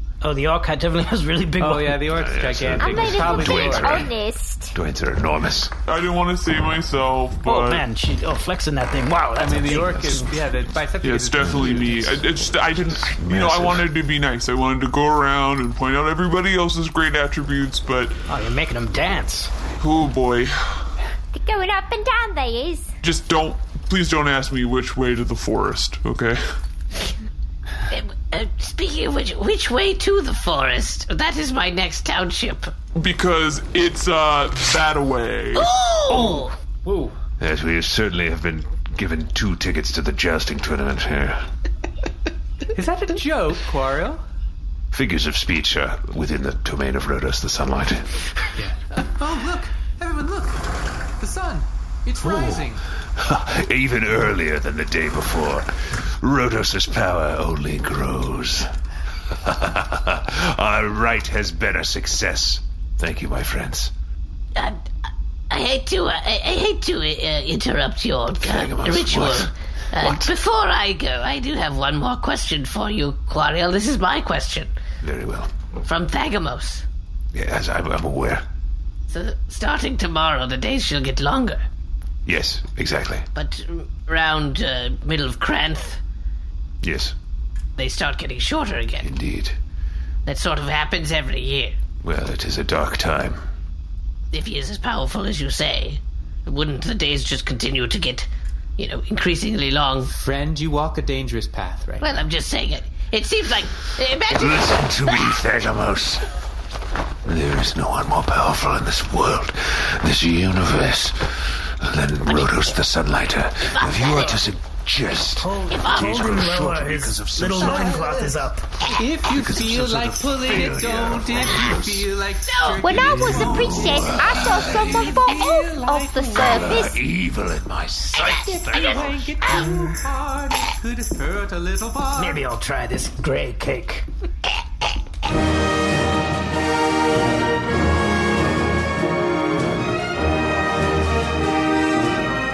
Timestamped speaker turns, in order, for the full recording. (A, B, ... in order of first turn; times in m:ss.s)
0:00.2-0:02.1 A
0:01.6-0:04.1 B
0:02.0-0:04.2 C
0:02.7-0:04.8 D
0:04.7-0:05.7 C
0:05.9-0:07.9 E
0:07.4-0:10.3 A
0:09.4-0:12.2 B
0:11.0-0:18.2 E
0:11.4-0:14.0 C
0:18.3-0:19.5 A
0:19.8-0:20.6 E
0:21.3-0:22.9 D
0:23.0-0:26.4 E
0:27.9-0:32.7 F
0:33.0-0:35.7 E
0:35.6-0:36.5 F
0:36.8-0:37.2 B
0:37.4-0:41.5 C
0:42.7-0:44.2 B
0:44.9-0:48.2 C
0:48.6-0:50.7 B
0:51.2-0:52.8 B
0:52.2-0:52.6 C
0:53.2-0:58.7 C
0:59.4-1:03.9 C
1:04.6-1:04.9 F
1:05.5-1:14.7 F
1:08.4-1:09.5 C
1:10.0-1:10.3 C
1:15.0-1:15.5 C
1:15.8-1:16.8 F
1:17.3-1:18.4 C
1:19.1-1:21.6 F
1:22.3-1:23.2 C
1:23.4-1:26.0 F
1:26.8-1:27.2 C
1:27.8-1:29.1 F
1:29.0-1:29.6 C
1:30.3-1:31.8 F
1:32.0-1:33.4 C
1:34.3-1:40.1 F
1:40.1-1:42.1 B
1:42.0-1:45.2 F
1:44.3-1:46.3 C
1:47.2-1:58.0 C
1:53.7-1:54.4 F
1:55.4-1:58.7 A
1:55.7-1:56.2 F
1:57.6-1:58.4 B
1:58.9-2:06.9 B
1:59.2-2:02.1 C
2:02.5-2:02.8 F
2:02.8-2:07.0 D
2:02.9-2:05.2 C
2:06.3-2:09.3 C
2:08.2-2:09.7 F
2:08.2-2:12.4 B
2:12.1-2:14.1 A